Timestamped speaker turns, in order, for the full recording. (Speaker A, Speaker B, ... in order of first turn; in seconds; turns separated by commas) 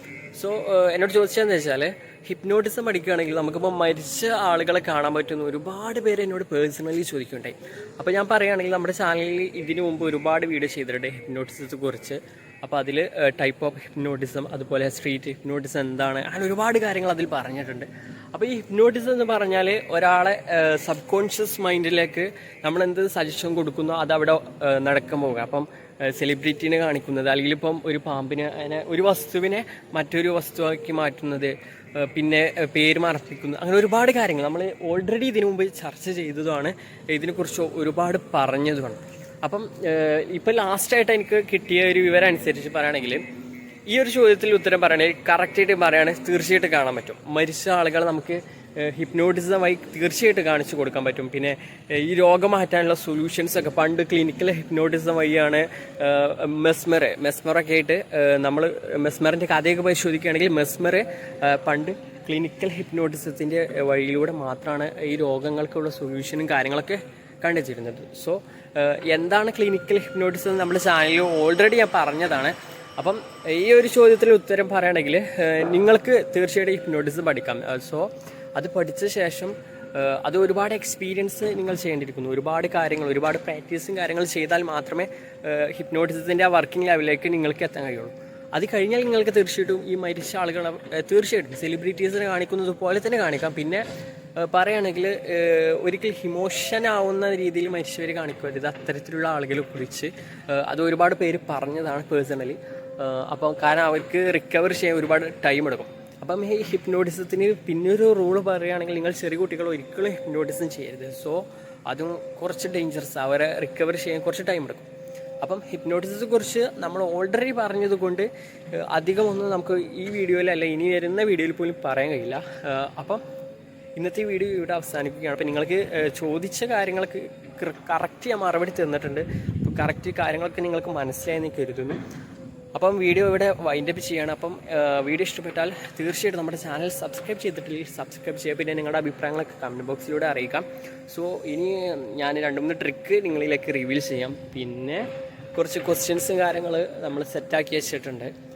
Speaker A: 0.3-43.2, Speaker A: 43.9-93.8, Speaker A: 94.4-114.9, Speaker A: 115.4-123.2, Speaker A: 124.0-132.0, Speaker A: 132.7-148.3